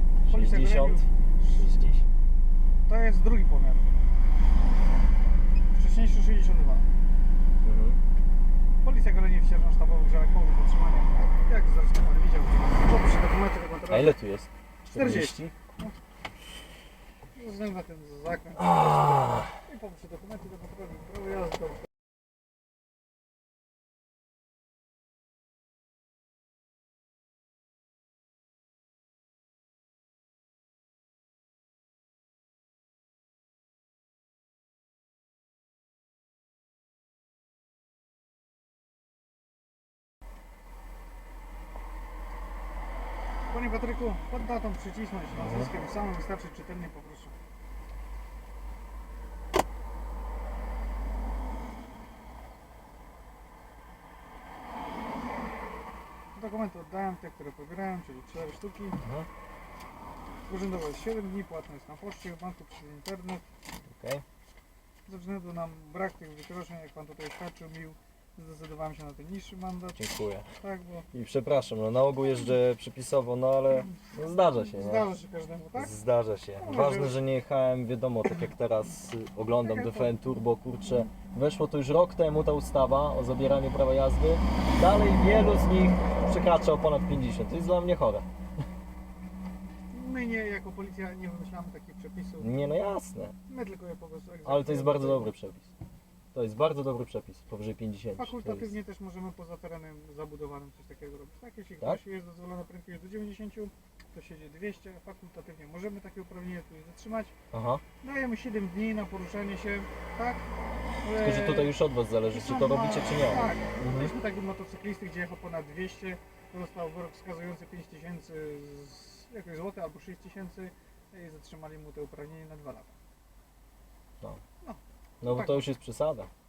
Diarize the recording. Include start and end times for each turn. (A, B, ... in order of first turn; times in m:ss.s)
0:00.2-0:02.0 A
0:00.3-0:01.1 B
0:02.9-0:03.9 B
0:05.7-0:06.9 B
0:07.6-0:08.0 A
0:08.8-0:14.2 B
0:13.9-0:15.5 A
0:14.9-0:16.0 B
0:17.3-0:21.7 B
0:18.7-0:19.5 A
0:43.5-0:47.3 B
0:45.4-0:45.7 A
0:56.3-0:59.0 B
0:59.0-0:59.3 A
1:00.5-1:03.4 B
1:04.0-1:04.2 A
1:05.1-1:10.0 B
1:10.0-1:10.5 A
1:10.6-1:11.1 B
1:11.1-1:15.1 A
1:14.7-1:15.9 B
1:15.8-1:28.3 A
1:16.6-1:17.2 B
1:19.6-1:20.1 B
1:29.9-1:32.5 B
1:32.4-1:33.4 A
1:33.5-1:35.3 B
1:34.4-1:35.7 A
1:36.3-1:38.7 A
1:38.2-1:47.3 B
1:47.5-1:47.8 A
1:48.0-1:50.4 B
1:51.0-1:51.7 B
1:51.1-1:54.1 A
1:52.3-2:03.0 B
2:04.6-2:05.7 B
2:05.2-2:06.3 A